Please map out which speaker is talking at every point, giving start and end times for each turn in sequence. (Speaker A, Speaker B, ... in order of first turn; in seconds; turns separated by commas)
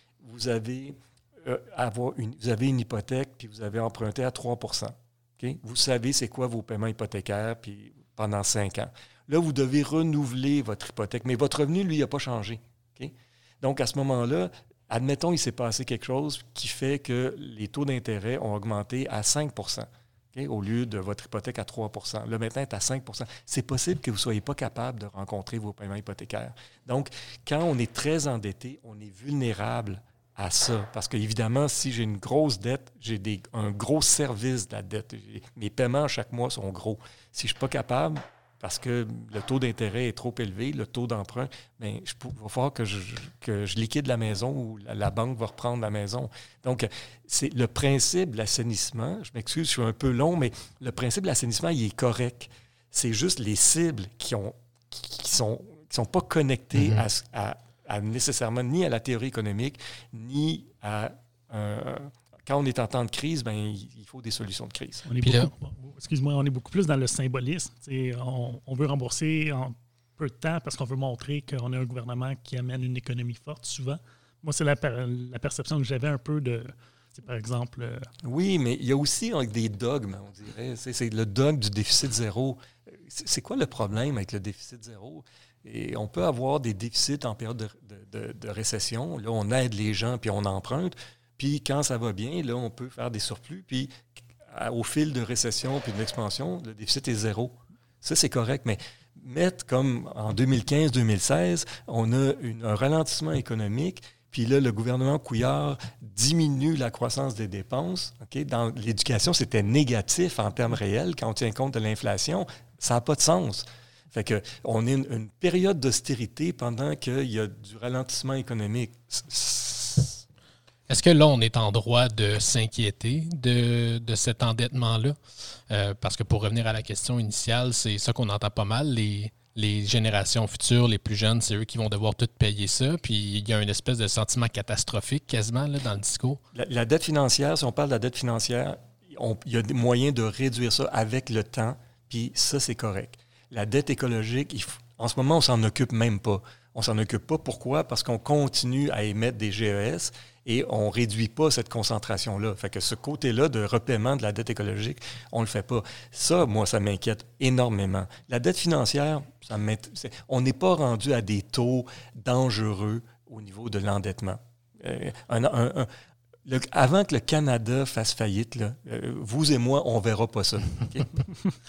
Speaker A: 0.2-65.1, Speaker B: 56.8-57.0, Speaker C: 65.1-78.1, Speaker B: 65.2-65.5, Speaker A: 78.2-93.9, Speaker A: 94.5-120.2, Speaker B: 120.9-125.2, Speaker B: 125.7-136.4, Speaker A: 136.5-165.9, Speaker A: 166.5-171.2